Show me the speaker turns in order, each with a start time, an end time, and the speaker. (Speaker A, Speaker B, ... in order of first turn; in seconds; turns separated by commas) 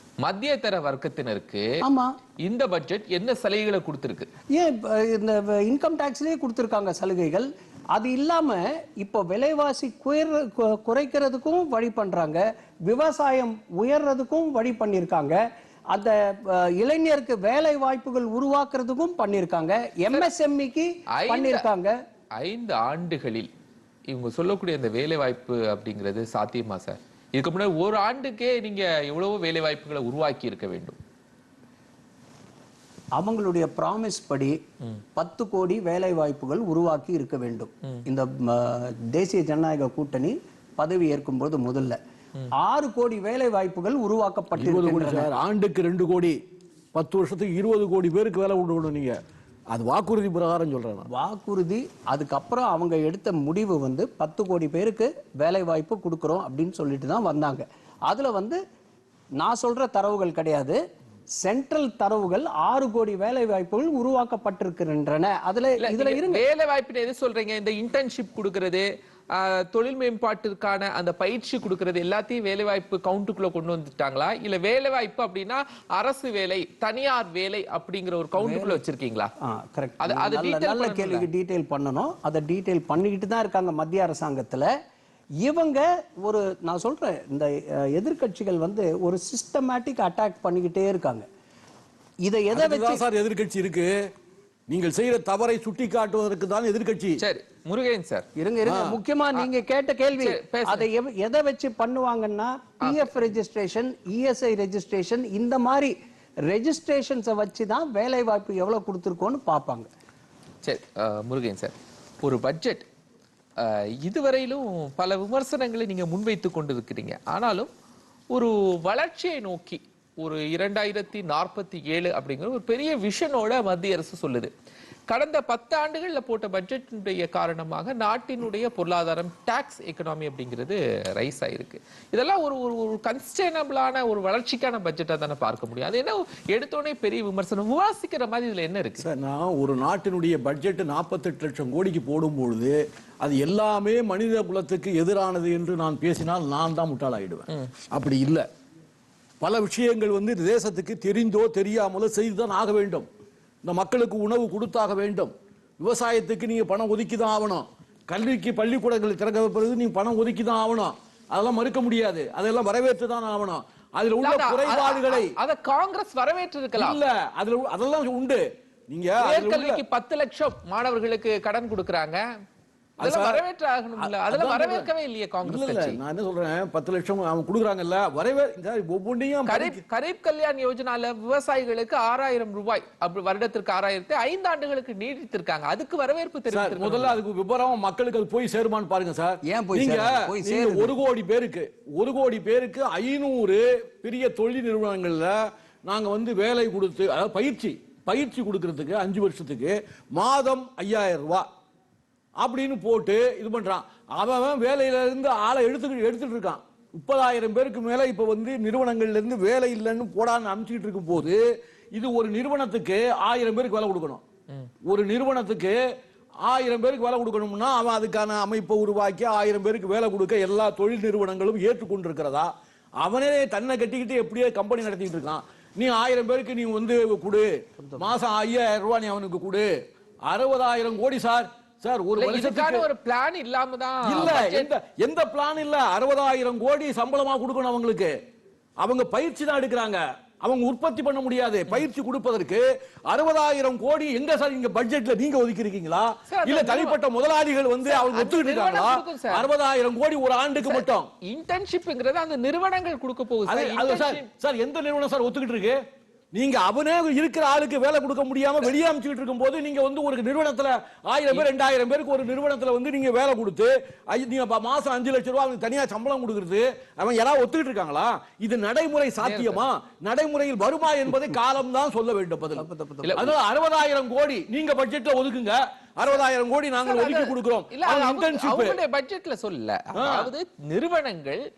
Speaker A: 0.2-1.8, Speaker B: 1.8-2.1, Speaker A: 2.4-4.3, Speaker B: 4.5-15.4, Speaker B: 15.9-21.9, Speaker A: 21.1-21.6, Speaker A: 22.4-23.5, Speaker A: 24.1-31.0, Speaker B: 33.1-34.6, Speaker B: 35.1-42.0, Speaker B: 42.6-45.3, Speaker C: 44.5-46.4, Speaker C: 46.9-49.2, Speaker C: 49.7-51.1, Speaker B: 51.1-58.6, Speaker B: 59.4-60.8, Speaker B: 61.4-66.4, Speaker A: 65.8-79.3, Speaker B: 78.4-78.8, Speaker B: 79.4-84.7, Speaker A: 80.0-81.3, Speaker B: 85.4-91.2, Speaker B: 92.2-93.0, Speaker C: 92.5-94.1, Speaker C: 94.7-97.2, Speaker A: 97.2-98.2, Speaker B: 98.4-109.9, Speaker C: 98.6-99.0, Speaker A: 100.2-100.9, Speaker A: 102.8-103.1, Speaker A: 110.6-112.8, Speaker A: 113.6-117.7, Speaker A: 118.3-124.5, Speaker A: 125.1-139.1, Speaker C: 139.0-148.4, Speaker C: 149.4-153.1, Speaker C: 153.7-165.3, Speaker A: 164.2-167.0, Speaker C: 166.8-169.8, Speaker A: 169.2-172.2, Speaker C: 173.0-173.4, Speaker A: 173.0-176.0, Speaker C: 174.0-174.9, Speaker C: 175.4-179.8, Speaker A: 179.5-187.2, Speaker C: 186.5-201.5, Speaker B: 189.4-190.9, Speaker C: 202.4-211.4, Speaker C: 211.9-214.2, Speaker C: 214.8-215.8, Speaker C: 216.4-222.5, Speaker C: 223.0-229.7, Speaker C: 230.3-232.8, Speaker A: 232.2-234.7, Speaker C: 234.0-238.2, Speaker C: 238.8-251.1, Speaker A: 246.3-247.0, Speaker A: 247.8-249.5, Speaker A: 250.6-254.3, Speaker C: 253.5-255.8, Speaker C: 256.3-278.8, Speaker A: 269.2-269.6, Speaker B: 272.6-273.2, Speaker A: 273.0-273.3, Speaker A: 276.8-281.4, Speaker C: 279.9-280.3